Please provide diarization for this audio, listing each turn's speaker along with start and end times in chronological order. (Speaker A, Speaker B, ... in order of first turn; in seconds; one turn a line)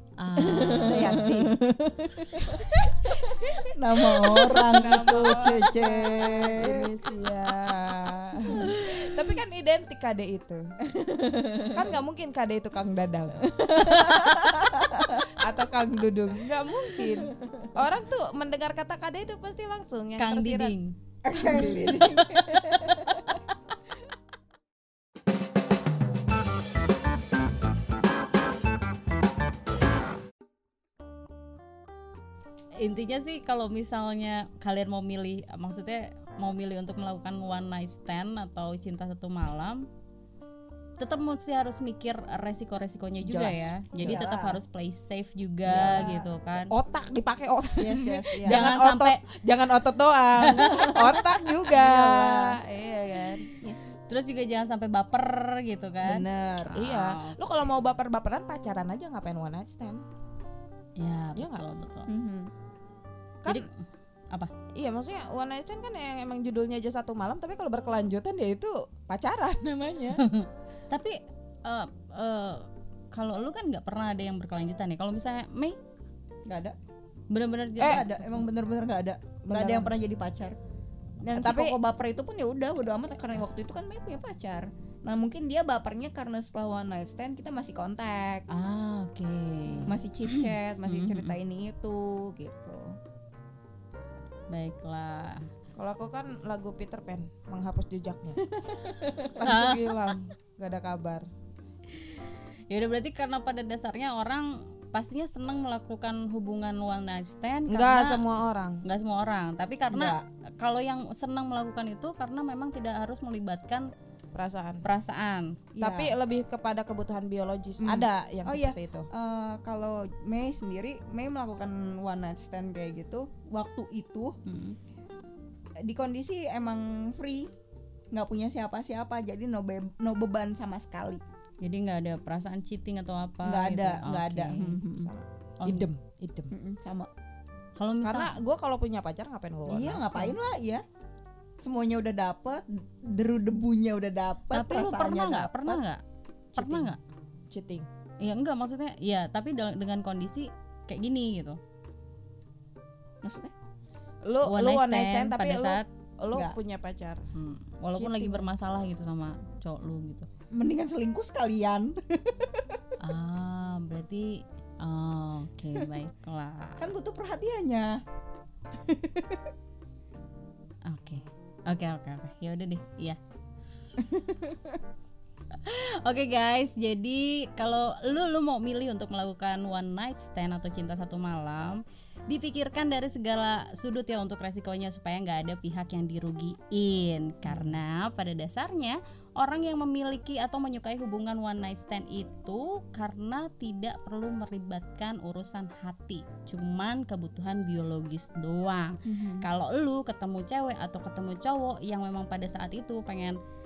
Speaker A: 0.2-1.3
Speaker B: 0.4-6.9
Speaker C: 0.5-1.6
Speaker C: 2.5-10.7
Speaker B: 8.5-8.8
Speaker B: 10.9-11.9
Speaker C: 11.7-20.7
Speaker B: 13.4-15.3
Speaker A: 20.2-20.9
Speaker B: 21.2-23.4
Speaker C: 21.4-22.1
Speaker A: 21.5-22.6
Speaker A: 32.8-39.9
Speaker A: 41.0-46.7
Speaker C: 43.2-44.3
Speaker B: 44.0-44.6
Speaker B: 45.6-46.3
Speaker C: 45.8-46.1
Speaker C: 46.6-53.5
Speaker B: 47.8-48.6
Speaker A: 48.5-49.2
Speaker A: 50.4-51.2
Speaker B: 50.6-51.1
Speaker B: 51.7-52.6
Speaker B: 53.6-54.0
Speaker A: 54.1-57.7
Speaker B: 56.0-56.8
Speaker C: 56.8-60.0
Speaker A: 61.0-62.1
Speaker C: 61.4-61.7
Speaker B: 62.1-62.5
Speaker A: 63.5-64.5
Speaker C: 64.8-70.2
Speaker A: 70.2-75.8
Speaker B: 76.5-76.8
Speaker A: 77.3-78.2
Speaker C: 77.8-78.0
Speaker B: 77.8-80.6
Speaker C: 79.5-79.9
Speaker B: 81.2-88.5
Speaker C: 81.3-81.8
Speaker A: 88.5-91.4
Speaker B: 89.9-93.0
Speaker A: 94.5-95.5
Speaker C: 95.8-98.4
Speaker B: 98.5-99.3
Speaker C: 99.2-101.3
Speaker A: 99.4-100.1
Speaker A: 101.9-108.3
Speaker C: 107.7-108.8
Speaker A: 108.8-113.9
Speaker B: 109.9-110.2
Speaker C: 114.3-114.8
Speaker A: 114.8-115.6
Speaker B: 115.8-116.2
Speaker C: 115.8-119.1
Speaker B: 117.8-124.4
Speaker A: 124.5-124.8
Speaker B: 125.8-127.5
Speaker B: 128.1-131.2
Speaker A: 131.6-134.8
Speaker B: 133.4-135.1
Speaker C: 135.0-136.5
Speaker A: 135.6-135.9
Speaker B: 136.5-137.1
Speaker A: 137.8-138.4
Speaker C: 138.0-140.4
Speaker B: 139.7-140.8
Speaker B: 141.6-145.8
Speaker A: 144.5-146.0
Speaker C: 146.5-147.0
Speaker A: 146.6-147.0
Speaker C: 147.5-147.9
Speaker A: 148.2-151.6
Speaker B: 153.2-153.5
Speaker C: 154.2-157.3
Speaker A: 154.4-155.8
Speaker A: 157.3-160.3
Speaker C: 158.0-158.5
Speaker B: 160.5-162.8
Speaker A: 163.0-166.9
Speaker B: 166.8-168.0
Speaker B: 168.7-169.5
Speaker A: 170.9-173.2
Speaker B: 174.0-174.8
Speaker A: 175.5-203.4
Speaker B: 187.5-187.8
Speaker B: 199.1-199.5